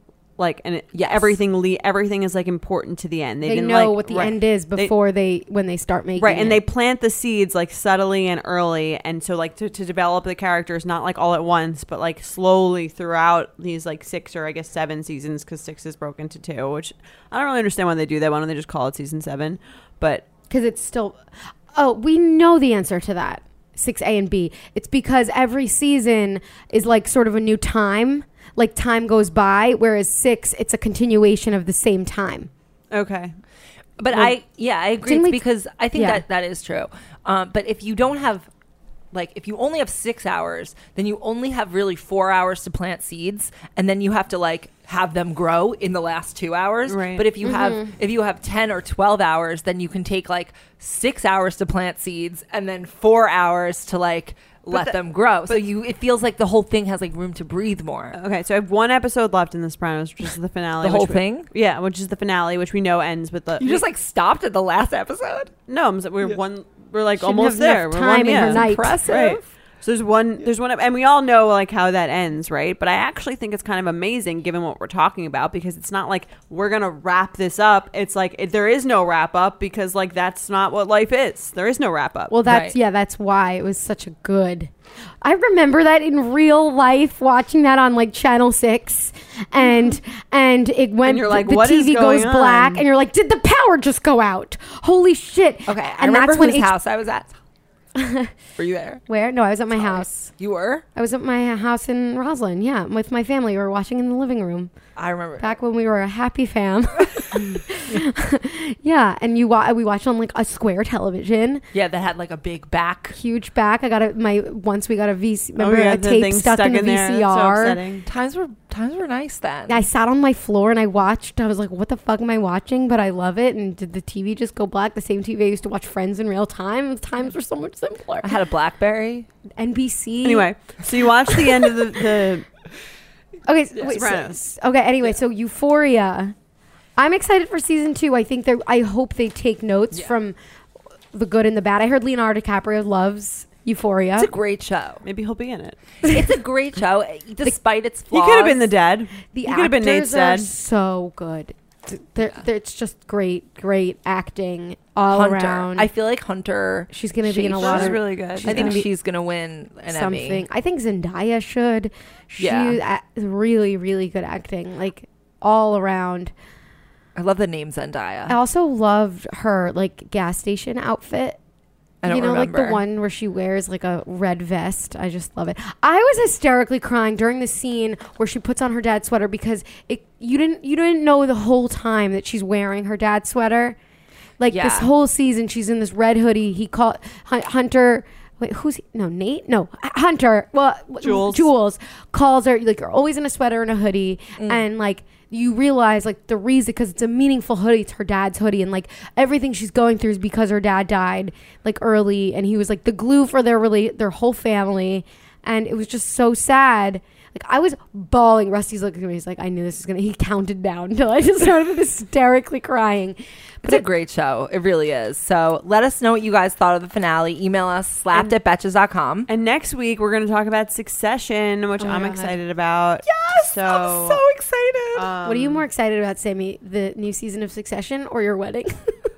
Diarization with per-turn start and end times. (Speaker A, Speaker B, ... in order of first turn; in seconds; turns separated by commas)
Speaker A: 0.4-4.9, Speaker B: 0.9-1.4, Speaker C: 3.4-6.6, Speaker A: 6.2-20.3, Speaker C: 20.5-21.2, Speaker C: 21.7-32.5, Speaker A: 32.9-33.4, Speaker B: 34.0-38.5, Speaker C: 35.0-35.4, Speaker C: 35.9-36.2, Speaker B: 39.1-58.2, Speaker A: 46.9-47.3, Speaker C: 47.4-47.9, Speaker A: 54.7-55.7, Speaker A: 58.1-63.8, Speaker B: 60.8-61.5, Speaker B: 63.6-65.5, Speaker A: 65.7-82.3, Speaker C: 67.2-69.0, Speaker B: 68.3-69.4, Speaker C: 82.3-84.7, Speaker B: 82.5-82.8, Speaker C: 85.2-96.7, Speaker A: 91.0-92.8, Speaker B: 95.7-97.3, Speaker C: 98.0-98.3, Speaker B: 98.6-99.0, Speaker C: 99.1-100.3, Speaker B: 99.8-100.8, Speaker C: 101.0-104.7, Speaker B: 105.0-105.5, Speaker C: 105.4-111.6, Speaker B: 111.7-113.2, Speaker C: 113.1-117.8, Speaker A: 115.6-118.1, Speaker B: 118.0-119.8, Speaker C: 119.7-128.4, Speaker B: 128.2-129.3, Speaker C: 129.6-130.5, Speaker A: 130.2-132.5, Speaker C: 133.4-136.3, Speaker A: 133.9-134.4, Speaker C: 137.0-140.4, Speaker C: 141.1-144.3, Speaker B: 144.2-145.0, Speaker A: 145.1-145.8, Speaker B: 146.0-148.7, Speaker A: 148.1-150.5, Speaker C: 149.3-155.9, Speaker B: 155.1-160.4, Speaker C: 156.9-158.9, Speaker A: 157.6-158.8, Speaker C: 159.9-166.3, Speaker B: 162.4-162.8, Speaker B: 167.1-168.4, Speaker C: 168.3-171.4, Speaker B: 172.0-172.8, Speaker C: 172.1-183.8, Speaker C: 184.4-213.9, Speaker B: 184.5-184.9, Speaker A: 191.0-191.5, Speaker B: 194.4-194.6, Speaker B: 213.6-219.3, Speaker A: 219.3-224.2, Speaker C: 221.8-222.4, Speaker B: 223.1-225.1, Speaker A: 224.9-225.6, Speaker C: 225.2-228.9